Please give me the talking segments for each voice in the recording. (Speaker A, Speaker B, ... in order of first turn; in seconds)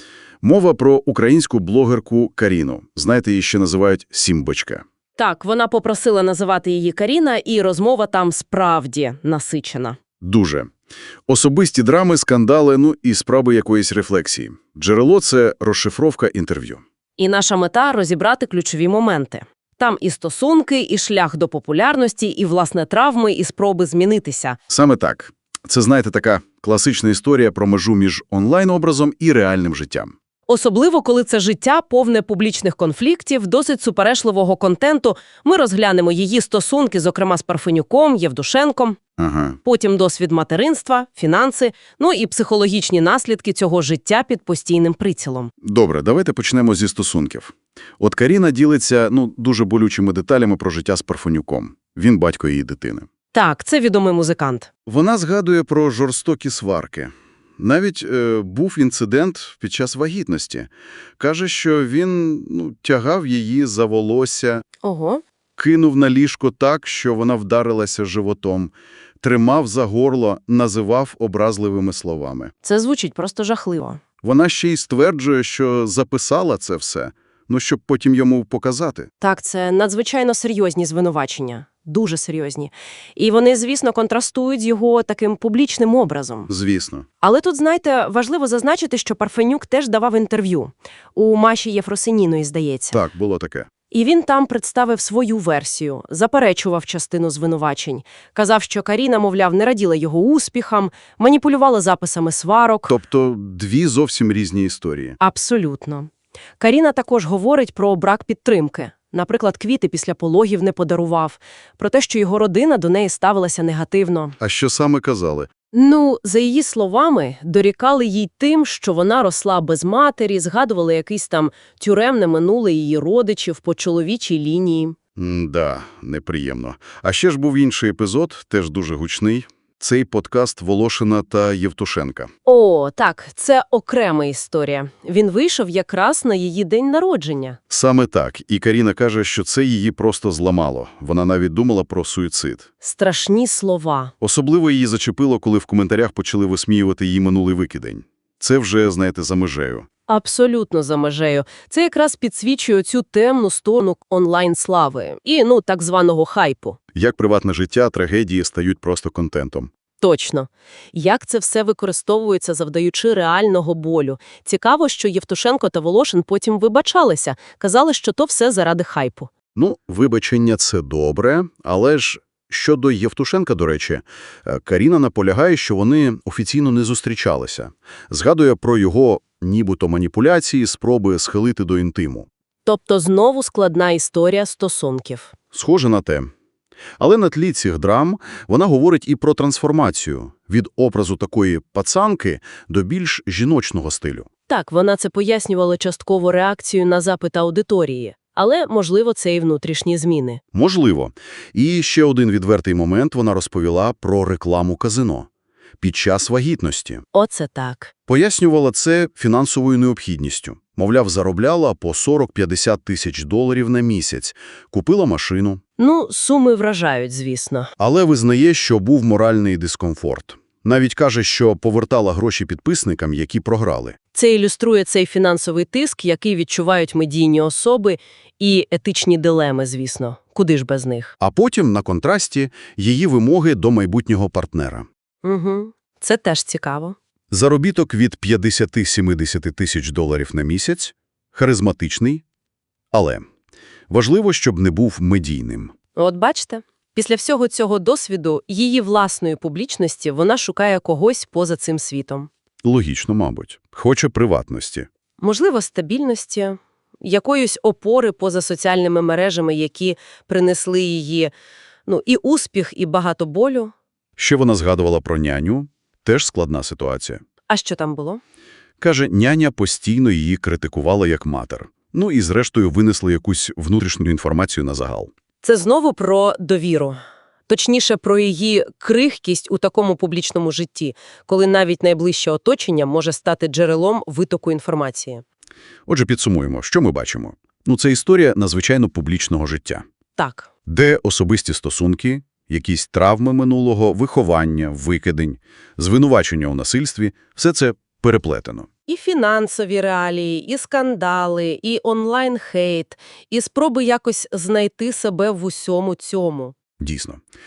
Speaker A: 0.4-4.8, 10.2-10.7, 11.3-16.8, 24.7-30.1, 39.2-39.6, 45.6-53.1, 54.9-64.6, 65.6-72.5, 74.2-79.1, 86.5-87.0, 92.9-93.7, 102.9-105.2, 114.4-115.5, 125.2-132.3, 137.7-142.7, 144.2-149.9, 156.9-159.7, 169.5-182.3, 185.5-186.3, 187.0-194.3, 200.5-205.3, 205.8-207.0, 208.1-215.6, 217.8-224.0, 231.2-234.9, 237.3-242.2, 242.9-243.2, 243.9-245.7, 252.6-254.9, 264.2-267.2, 268.8-275.1, 285.9-289.8, 290.7-298.7, 306.8-307.2
Speaker B: 5.2-10.0, 17.2-24.6, 30.5-39.0, 39.6-45.5, 53.3-54.7, 64.8-65.2, 72.6-74.0, 79.2-86.5, 87.2-93.0, 93.9-102.9, 105.2-114.3, 115.7-125.0, 132.4-137.6, 142.8-144.1, 150.1-156.8, 160.0-169.3, 182.7-185.3, 194.5-200.4, 207.1-207.9, 215.8-217.7, 224.1-231.1, 235.2-236.9, 245.9-252.3, 255.2-261.3, 261.9-263.7, 267.5-268.2, 275.4-285.2, 290.2-290.5, 298.9-306.5